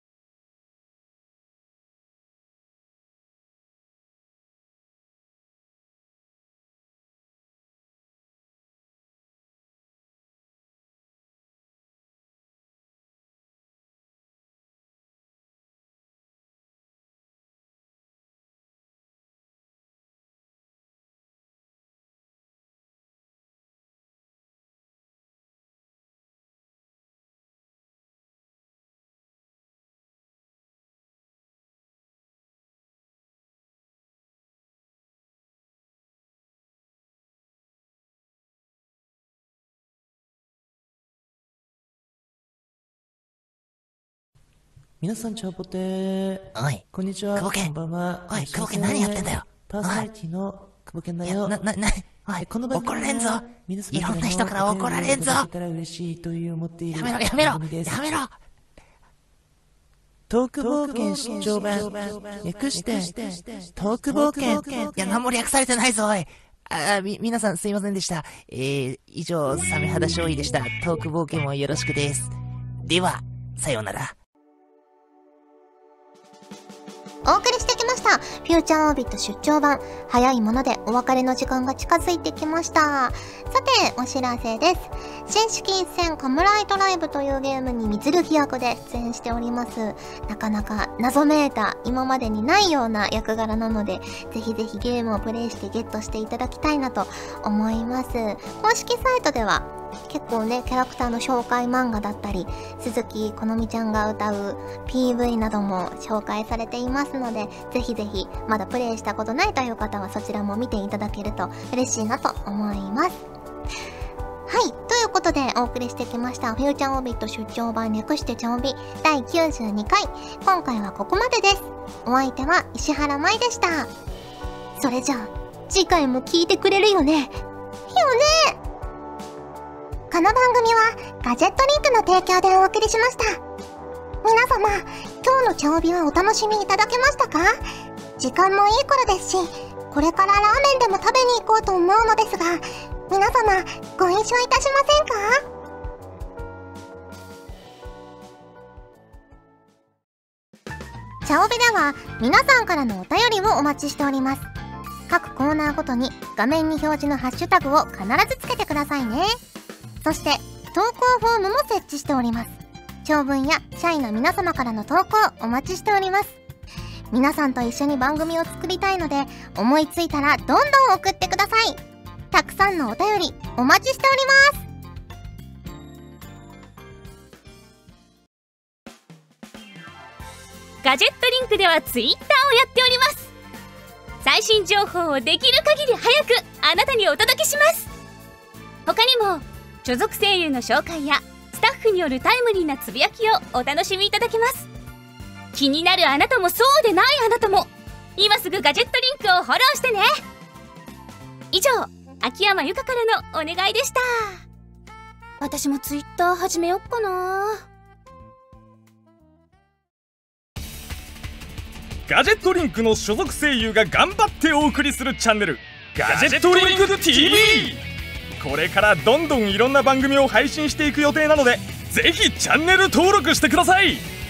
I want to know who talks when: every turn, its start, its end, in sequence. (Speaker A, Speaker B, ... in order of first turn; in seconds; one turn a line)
Speaker A: 45.0-51.6
Speaker B: 46.5-46.8
Speaker B: 47.3-47.7
Speaker B: 48.3-50.1
Speaker B: 51.2-55.5
Speaker A: 52.4-58.0
Speaker B: 56.9-58.3
Speaker A: 60.3-65.2
Speaker B: 60.6-63.2
Speaker B: 64.0-72.3
Speaker B: 72.8-74.1
Speaker C: 77.2-113.2
Speaker C: 114.5-123.9
Speaker C: 124.8-128.6
Speaker C: 130.1-133.4
Speaker C: 134.2-137.6
Speaker C: 138.2-145.4
Speaker C: 151.2-154.5
Speaker C: 155.1-159.3
Speaker C: 160.0-166.4
Speaker C: 167.1-174.6
Speaker D: 180.8-183.3
Speaker D: 184.2-187.9
Speaker D: 188.8-194.7
Speaker D: 195.5-200.1
Speaker D: 201.5-204.4
Speaker D: 205.4-207.6
Speaker E: 212.1-217.8
Speaker E: 218.4-224.0